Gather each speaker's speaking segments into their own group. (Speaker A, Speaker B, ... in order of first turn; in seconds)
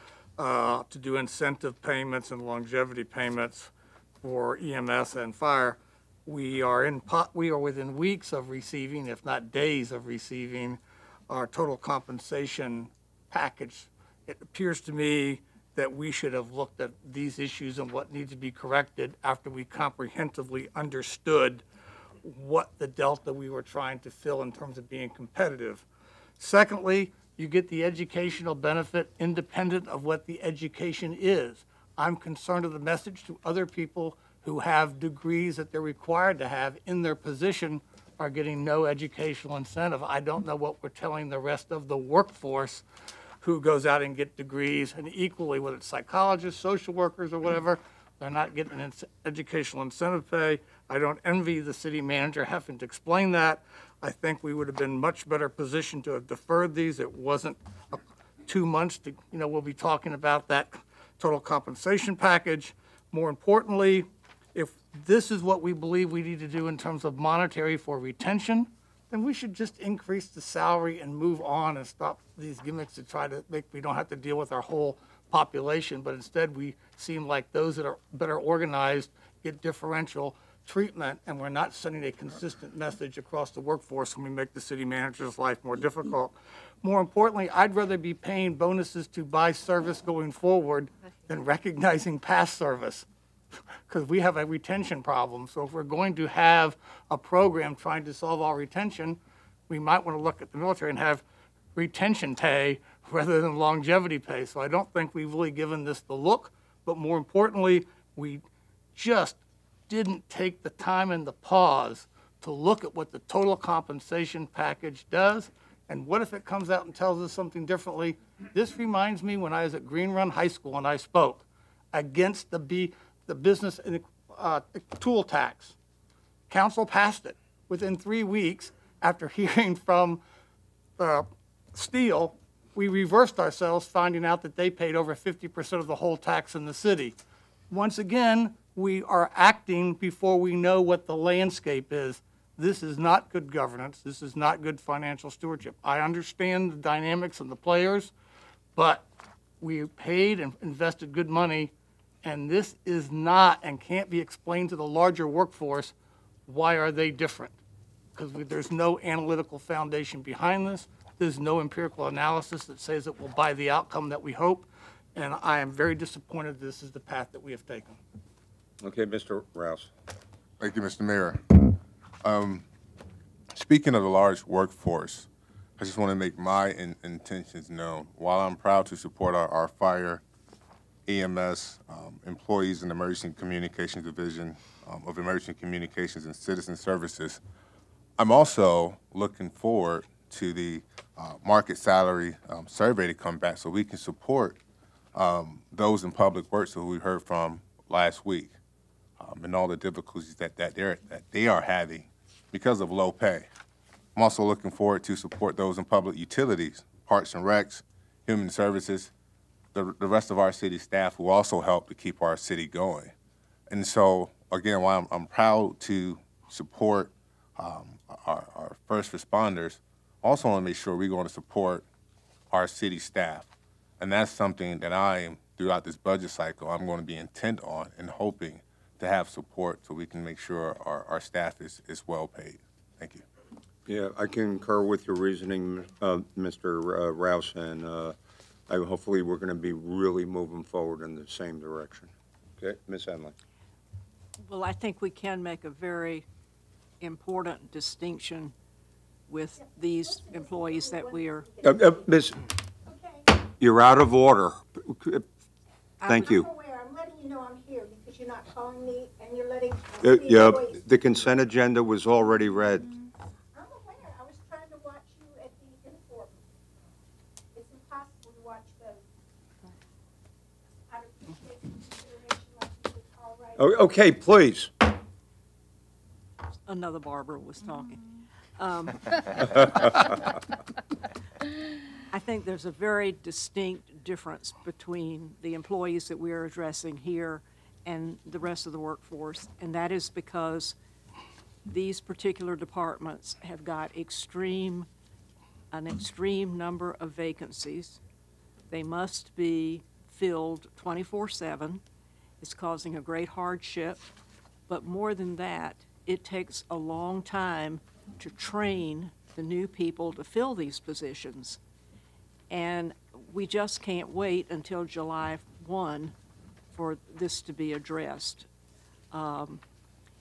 Speaker A: 0.4-3.7, 4.2-21.6, 22.2-25.9, 26.4-42.8, 43.4-93.1, 93.9-101.2, 101.8-108.4, 109.0-125.8, 126.5-130.2, 131.0-137.2, 137.7-148.1, 148.8-149.1, 149.6-151.7, 152.2-155.9, 156.5-157.6, 158.2-168.0
Speaker B: 168.8-169.9, 233.9-238.2, 238.7-243.3, 251.6-252.4, 253.6-255.3, 256.1-256.5, 260.0-262.9, 273.6-274.7
Speaker C: 170.6-172.7, 173.5-180.2, 181.1-187.4, 188.2-194.6, 195.2-198.6, 199.2-203.5, 204.2-209.1, 209.7-213.1, 213.7-221.9, 222.5-223.5, 224.0-233.2
Speaker D: 244.5-246.3, 247.0-248.5, 249.3-251.5, 256.0-256.3, 276.7-278.0, 278.6-280.2, 282.1-290.8, 291.7-294.9, 295.7-298.0, 298.7-301.8, 302.4-304.1, 304.7-311.6, 312.5-316.1, 316.7-318.5, 319.1-319.6
Speaker E: 249.6-252.1, 252.9-253.2, 256.1-260.8, 263.6-266.4, 267.5-269.0, 270.9-273.7